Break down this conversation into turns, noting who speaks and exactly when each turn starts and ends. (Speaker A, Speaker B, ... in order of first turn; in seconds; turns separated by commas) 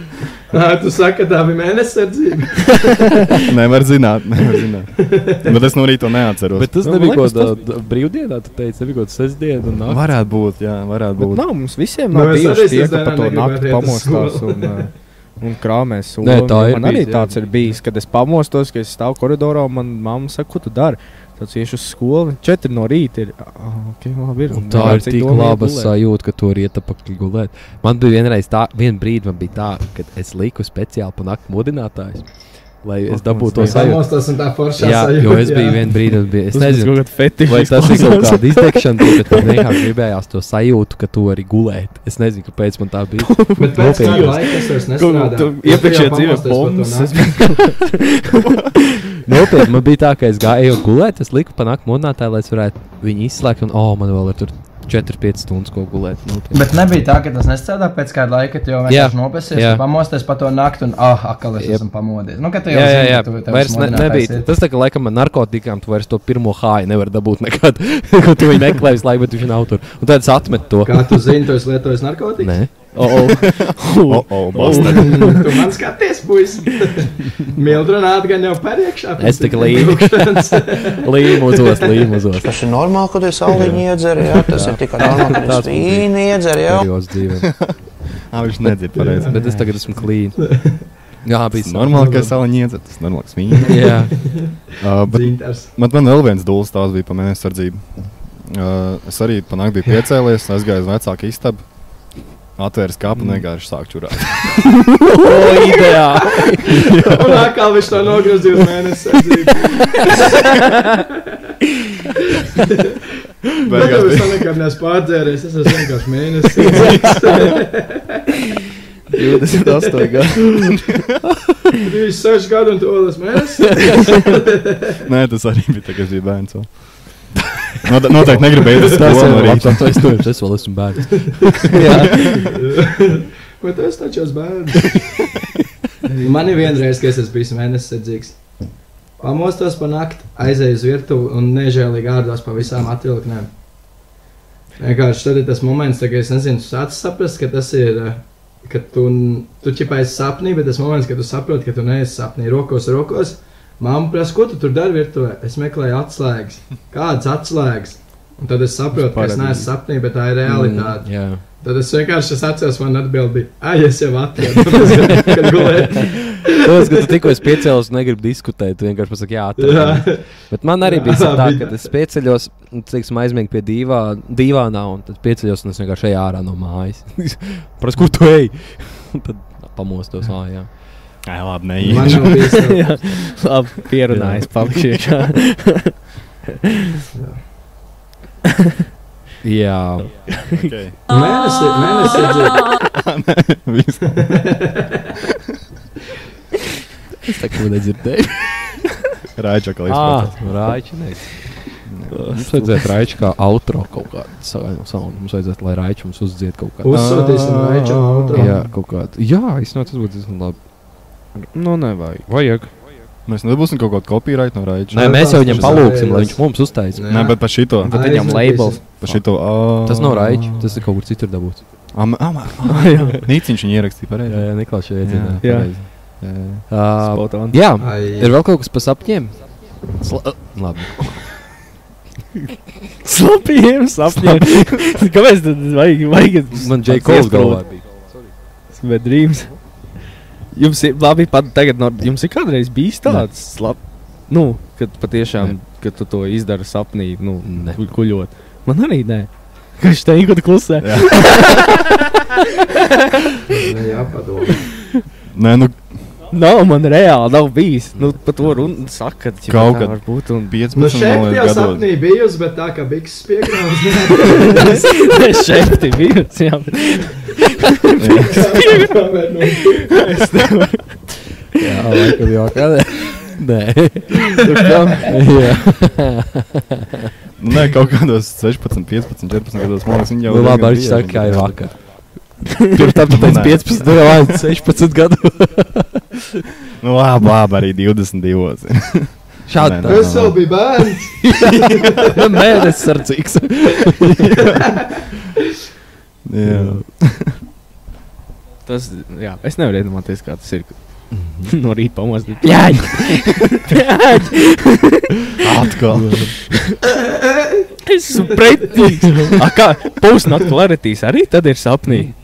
Speaker A: 0.5-3.3, Speaker B: 3.4-6.8, Speaker A: 5.0-5.6, Speaker C: 6.5-10.0, Speaker D: 6.8-7.5, Speaker B: 9.8-11.4, Speaker D: 11.2-25.9, Speaker A: 12.1-14.9, Speaker C: 16.2-17.8, Speaker C: 24.5-34.2, Speaker D: 33.1-33.9, Speaker A: 33.5-35.9, Speaker C: 34.8-44.5, Speaker D: 36.5-39.5, Speaker D: 43.2-49.4, Speaker A: 43.6-47.5, Speaker C: 49.3-56.6, Speaker A: 56.5-64.5, Speaker C: 58.9-59.8, Speaker C: 62.7-71.2, Speaker A: 70.8-72.6, Speaker C: 72.4-72.7, Speaker D: 72.9-75.6, Speaker B: 73.4-75.4, Speaker A: 74.7-82.1, Speaker C: 79.2-82.5, Speaker E: 82.4-86.9, Speaker C: 83.5-87.7, Speaker B: 87.4-89.7, Speaker A: 88.9-90.9, Speaker C: 89.2-90.5, Speaker C: 91.2-92.3, Speaker B: 91.5-94.1, Speaker A: 92.0-92.2, Speaker A: 93.6-95.7, Speaker C: 93.7-94.2, Speaker B: 94.8-101.6, Speaker B: 102.5-104.7, Speaker C: 105.1-107.5, Speaker D: 105.2-106.0, Speaker A: 105.3-110.7, Speaker A: 112.4-113.1, Speaker B: 113.6-114.4, Speaker A: 113.7-118.4, Speaker D: 119.1-120.8, Speaker A: 119.6-120.1, Speaker A: 121.8-125.0, Speaker B: 125.0-130.2, Speaker C: 128.5-132.5, Speaker A: 128.7-129.3, Speaker D: 131.8-132.0, Speaker A: 132.3-135.1, Speaker D: 136.0-136.7, Speaker A: 136.2-138.4, Speaker A: 139.2-143.5, Speaker A: 144.8-167.2, Speaker D: 158.9-159.7, Speaker C: 160.4-161.4, Speaker C: 164.8-180.8, Speaker A: 169.6-171.9, Speaker B: 181.2-182.5, Speaker A: 181.8-182.9, Speaker C: 181.9-182.2, Speaker D: 182.3-186.0, Speaker C: 184.1-184.7, Speaker A: 187.1-187.4, Speaker C: 189.4-190.2, Speaker D: 190.3-190.7, Speaker B: 190.5-191.0, Speaker A: 191.1-192.7, Speaker B: 192.8-194.3, Speaker A: 194.2-195.0, Speaker C: 197.2-198.9, Speaker B: 199.3-200.5, Speaker C: 199.9-207.2, Speaker B: 201.8-202.7, Speaker A: 206.8-208.6, Speaker B: 206.9-208.5, Speaker C: 208.3-210.6, Speaker D: 211.4-212.3, Speaker C: 212.3-212.7, Speaker B: 213.2-215.8, Speaker C: 214.9-217.2, Speaker A: 214.9-218.8, Speaker B: 217.1-217.9, Speaker D: 217.8-218.9, Speaker B: 219.0-220.5, Speaker C: 219.8-221.6, Speaker B: 221.9-226.7, Speaker D: 222.7-223.2, Speaker C: 224.3-231.3, Speaker D: 225.4-225.7, Speaker D: 227.0-227.6, Speaker A: 227.8-228.3, Speaker D: 233.0-237.6, Speaker C: 236.5-237.8, Speaker D: 238.7-239.5, Speaker D: 240.5-252.1, Speaker C: 247.4-247.8, Speaker B: 250.8-251.6, Speaker A: 253.5-254.7, Speaker B: 255.3-256.1, Speaker D: 256.3-260.5, Speaker B: 259.5-261.9, Speaker A: 260.7-265.1, Speaker D: 264.4-269.1, Speaker B: 268.0-268.6, Speaker A: 268.2-270.0, Speaker D: 269.6-271.1, Speaker C: 271.6-276.9, Speaker D: 274.4-275.2, Speaker B: 277.4-281.6, Speaker C: 280.3-286.2, Speaker B: 283.1-283.9, Speaker B: 286.8-290.4, Speaker C: 289.4-290.3, Speaker A: 289.8-292.2, Speaker C: 291.2-294.6, Speaker B: 294.3-294.6, Speaker A: 294.4-294.9, Speaker B: 296.2-297.4, Speaker C: 296.4-296.8, Speaker D: 298.6-305.4, Speaker C: 301.1-301.5, Speaker C: 302.5-303.3, Speaker B: 305.4-306.3, Speaker C: 305.9-306.4, Speaker D: 306.3-306.8, Speaker A: 306.9-307.7, Speaker D: 307.8-312.1, Speaker C: 308.7-309.3